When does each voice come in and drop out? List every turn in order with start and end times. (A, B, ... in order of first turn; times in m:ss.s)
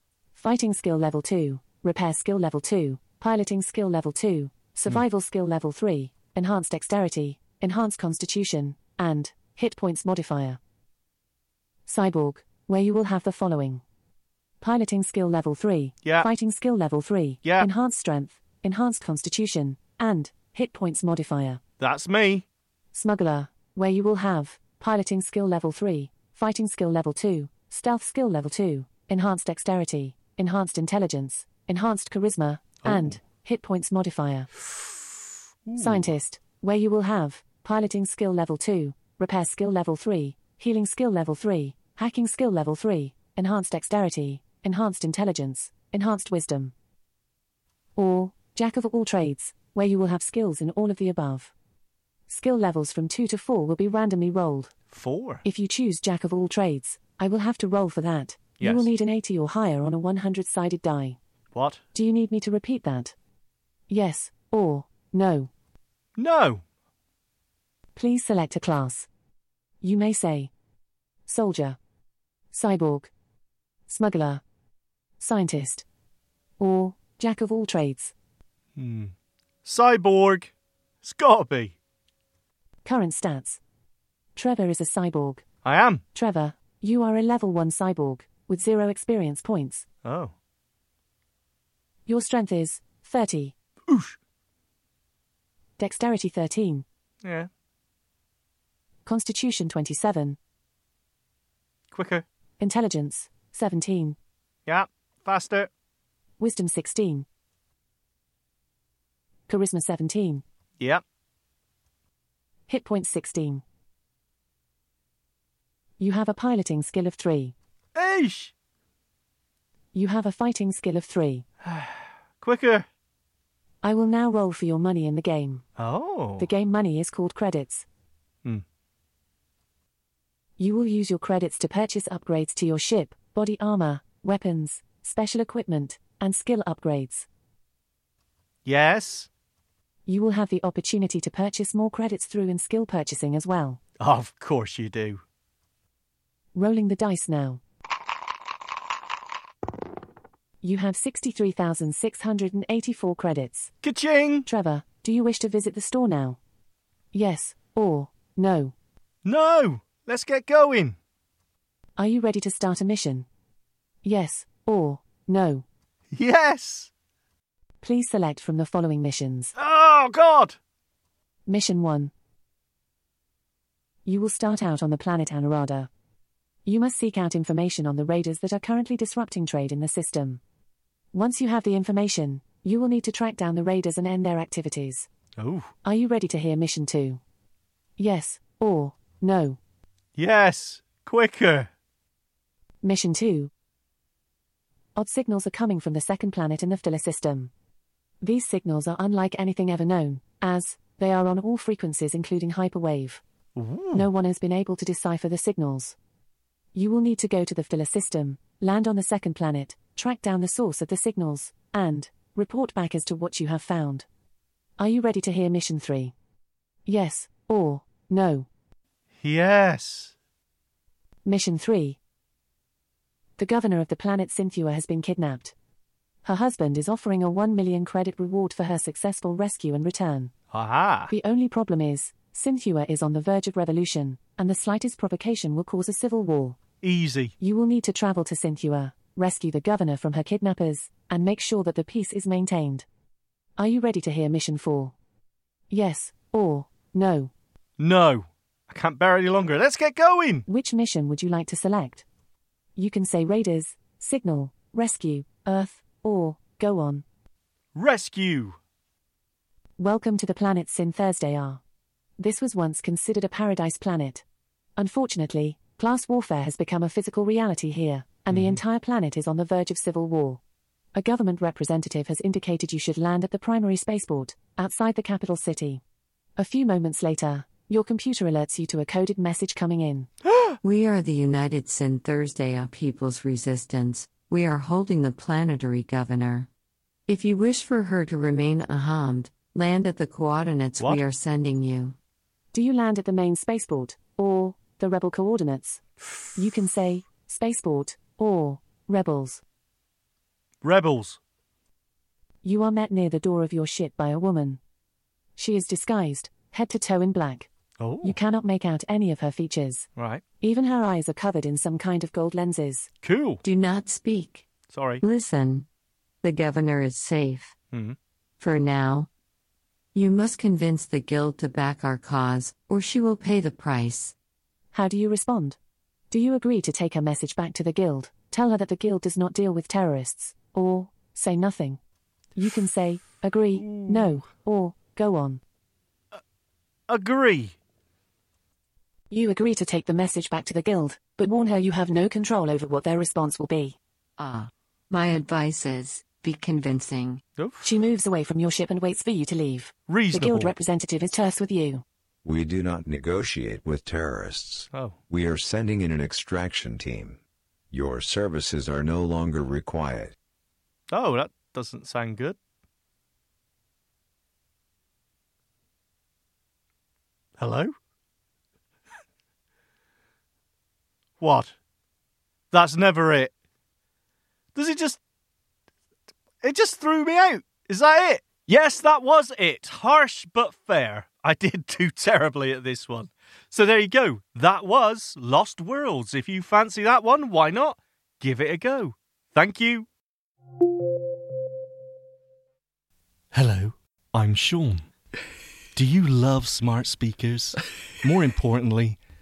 0:00.3-0:10.6 A
0:11.9-0:13.8 A
0:14.6-0:21.6 A
0:21.8-0:22.4 B
0:22.9-0:34.5 A
0:32.8-0:33.1 B
0:35.7-0:36.1 B
0:35.8-0:46.7 A
0:48.0-0:51.5 A
0:52.3-0:54.7 A
0:54.9-0:55.4 B
0:55.4-1:01.2 A
0:58.6-0:58.9 B
1:01.5-1:01.8 B
1:01.9-1:03.2 A
1:03.9-1:05.5 A
1:06.2-1:06.6 B
1:08.0-1:09.1 A
1:09.8-1:10.5 A
1:11.3-1:11.8 A
1:12.5-1:13.1 A
1:13.9-1:14.4 A
1:15.2-1:15.8 A
1:16.6-1:18.1 A
1:18.8-1:19.1 B
1:19.6-1:20.5 B
1:21.0-1:21.8 B
1:22.8-1:23.6 A
1:24.4-1:25.4 A
1:25.6-1:26.0 B
1:26.1-1:29.9 A
1:30.0-1:30.3 B
1:32.1-1:33.6 A
1:33.9-1:34.2 B
1:35.8-1:36.8 A
1:37.2-1:37.5 B
1:39.0-1:40.4 A
1:41.9-1:42.2 B
1:42.6-1:44.2 A
1:44.7-1:45.7 B
1:46.4-1:47.3 A
1:49.5-1:50.4 A
1:52.7-1:53.6 A
1:56.0-1:57.6 A
1:58.0-1:58.5 B
1:59.9-2:01.4 A
2:01.6-2:02.9 B
2:03.8-2:05.6 A
2:05.8-2:06.5 B
2:06.4-2:07.9 A
2:10.6-2:17.3 A
2:18.7-2:19.3 B
2:20.1-2:23.8 A
2:24.0-2:25.2 B
2:26.6-2:27.6 A
2:30.6-2:33.7 A
2:33.8-2:34.5 B
2:34.5-2:36.4 A
2:37.1-2:38.7 A
2:39.2-2:41.0 B
2:42.0-2:43.3 A
2:44.0-2:45.7 A
2:46.1-2:46.9 B
2:47.8-2:49.5 A
2:49.6-2:50.6 B
2:51.5-2:52.1 A
2:54.1-2:55.9 A
2:56.6-3:00.4 A
3:01.1-3:05.1 A
3:05.4-3:05.7 B
3:05.8-3:07.2 A
3:08.0-3:09.6 A
3:10.2-3:11.7 B
3:12.8-3:13.5 A
3:15.0-3:17.5 A
3:18.2-3:23.2 A
3:23.6-3:24.1 B
3:23.9-3:26.0 A
3:26.7-3:34.1 A
3:34.8-3:36.1 A
3:36.9-3:38.5 A
3:39.2-3:40.1 B
3:41.2-3:42.0 A
3:43.4-3:45.5 A
3:46.2-3:50.3 A
3:50.5-3:51.1 B
3:51.1-3:56.6 A
3:56.8-3:57.3 B
3:57.4-4:02.9 A
4:03.6-4:05.0 A
4:05.7-4:07.3 A
4:07.8-4:10.5 B
4:10.5-4:12.0 A
4:12.8-4:17.0 A
4:17.8-4:18.6 B
4:19.8-4:21.6 A
4:22.2-4:24.2 A
4:24.8-4:30.4 A
4:28.3-4:28.6 B
4:31.0-4:35.8 A
4:36.4-4:40.1 A
4:40.6-4:46.5 C
4:47.1-4:52.0 C
4:52.5-4:55.8 A
4:56.4-4:59.4 A
5:00.6-5:01.2 B
5:02.4-5:04.6 A
5:05.4-5:07.5 A
5:07.8-5:08.2 B
5:08.0-5:09.9 A
5:10.0-5:10.2 B
5:10.4-5:12.9 A
5:13.0-5:13.4 B
5:13.4-5:14.4 C
5:14.7-5:15.0 B
5:15.0-5:15.7 C
5:16.2-5:17.5 C
5:17.7-5:18.0 B
5:18.4-5:19.1 C
5:19.9-5:24.2 C
5:24.7-5:25.6 A
5:26.1-5:31.8 A
5:32.4-5:35.4 A
5:33.6-5:34.2 B
5:36.9-5:37.6 B
5:39.1-5:43.8 A
5:44.2-5:47.2 C
5:47.4-5:47.6 B
5:47.6-5:51.8 A
5:49.9-5:50.5 B
5:52.2-5:57.2 D
5:54.7-5:55.0 B
5:57.7-6:00.2 D
6:00.9-6:02.4 B
6:07.4-6:07.7 B
6:11.2-6:11.5 B
6:12.5-6:13.3 B
6:14.6-6:15.0 B
6:16.4-6:29.9 B
6:33.3-6:34.8 B
6:35.8-6:39.0 B